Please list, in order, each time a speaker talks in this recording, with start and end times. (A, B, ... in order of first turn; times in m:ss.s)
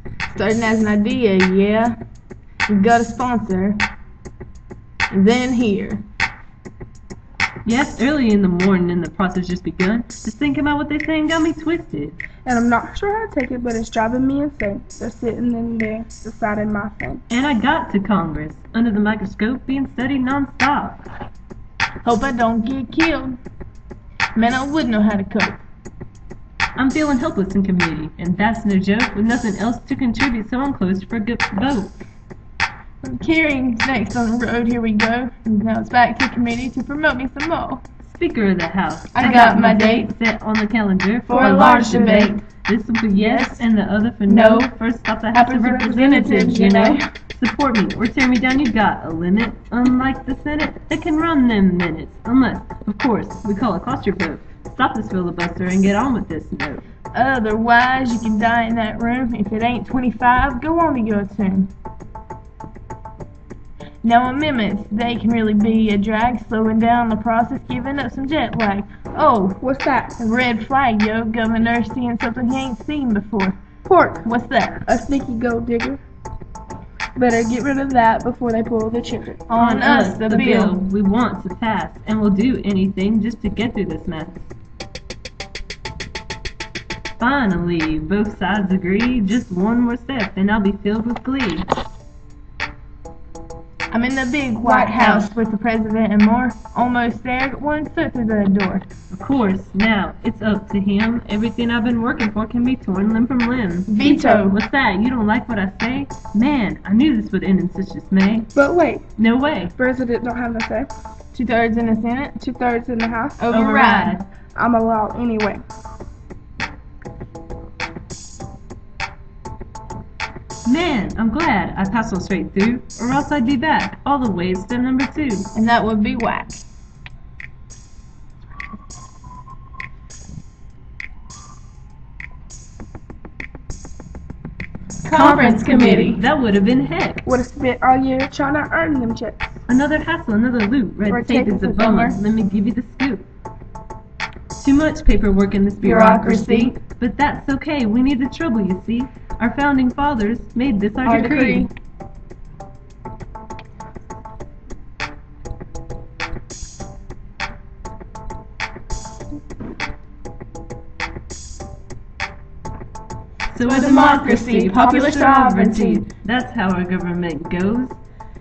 0:00.3-0:02.0 A
0:02.7-0:03.8 A
0:05.1-0:06.0 A
0:07.6-0:12.2 B
0:12.4-0:17.2 C
0:17.3-0:21.0 B
0:22.0-0:23.4 A
0:24.3-0:25.6 A
0:26.8-0:32.0 B
0:33.0-0:37.8 A
0:38.0-0:56.8 B
0:39.1-0:40.1 A
0:41.3-0:42.3 C
0:41.3-0:42.4 A
0:43.2-0:43.6 A
0:44.3-0:44.7 A
0:45.3-0:47.1 A
0:45.5-0:46.8 C
0:57.1-1:01.7 A
1:04.0-1:09.6 A
1:09.6-1:10.1 C
1:10.2-1:13.6 A
1:13.9-1:14.2 C
1:14.2-1:14.8 A
1:14.9-1:16.0 C
1:17.2-1:19.4 C
1:19.5-1:20.8 A
1:19.6-1:24.4 B
1:27.2-1:31.7 B
1:33.9-1:38.9 A
1:34.6-1:35.3 C
1:39.1-1:48.5 B
1:43.9-1:44.6 A
1:44.0-1:44.4 C
1:48.6-1:49.0 C
1:49.2-1:49.7 B
1:49.8-1:50.9 C
1:51.3-1:52.4 A
1:52.4-1:53.4 C
1:53.4-1:54.2 A
1:53.5-1:54.2 B
1:54.6-1:55.6 C
2:00.7-2:05.5 B
2:05.5-2:06.6 A
2:15.0-2:16.2 A
2:15.1-2:17.2 B
2:17.2-2:19.6 C
2:19.7-2:23.2 B
2:21.1-2:22.2 C
2:24.6-2:31.7 B
2:25.8-2:26.8 A
2:31.0-2:31.7 A
2:43.5-2:48.0 B
2:43.6-2:46.1 A